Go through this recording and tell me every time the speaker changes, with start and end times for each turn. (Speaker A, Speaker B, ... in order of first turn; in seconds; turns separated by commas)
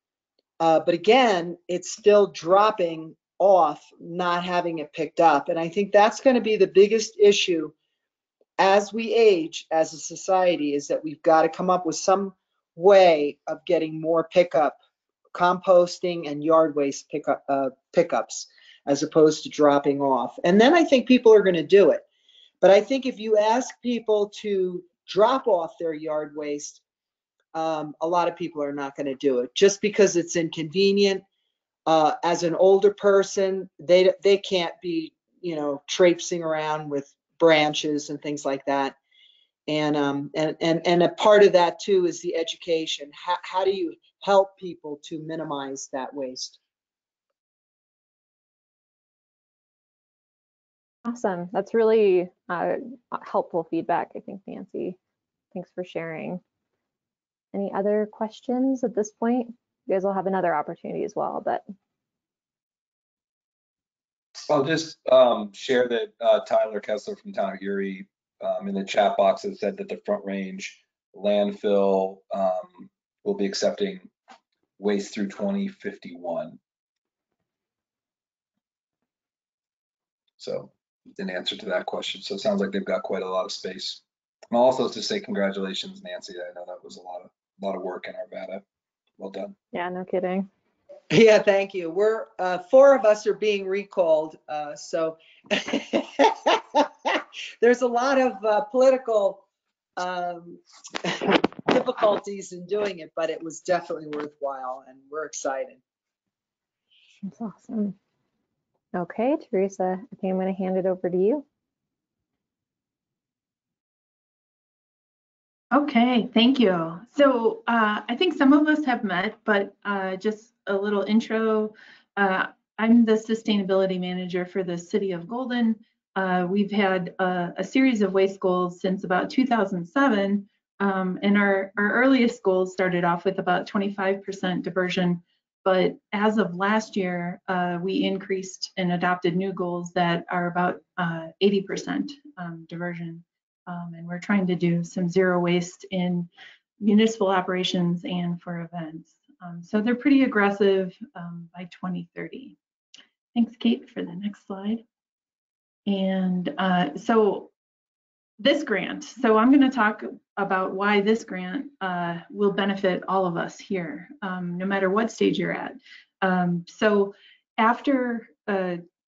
Speaker A: 0.6-7.7, Speaker A: 8.6-14.8, Speaker A: 15.3-22.0, Speaker A: 22.6-26.8, Speaker A: 27.5-31.2, Speaker A: 31.9-39.0, Speaker A: 39.7-46.6, Speaker B: 51.0-55.0, Speaker B: 55.5-56.4, Speaker B: 57.5-61.6, Speaker C: 64.5-74.1, Speaker C: 74.8-76.6, Speaker C: 80.4-88.6, Speaker C: 89.2-89.6, Speaker B: 89.7-90.5, Speaker A: 91.1-99.4, Speaker A: 100.0-105.8, Speaker B: 107.2-108.0, Speaker B: 108.9-111.4, Speaker D: 115.7-146.3, Speaker D: 146.8-152.6, Speaker D: 153.3-154.8, Speaker D: 155.9-157.5, Speaker D: 158.4-168.8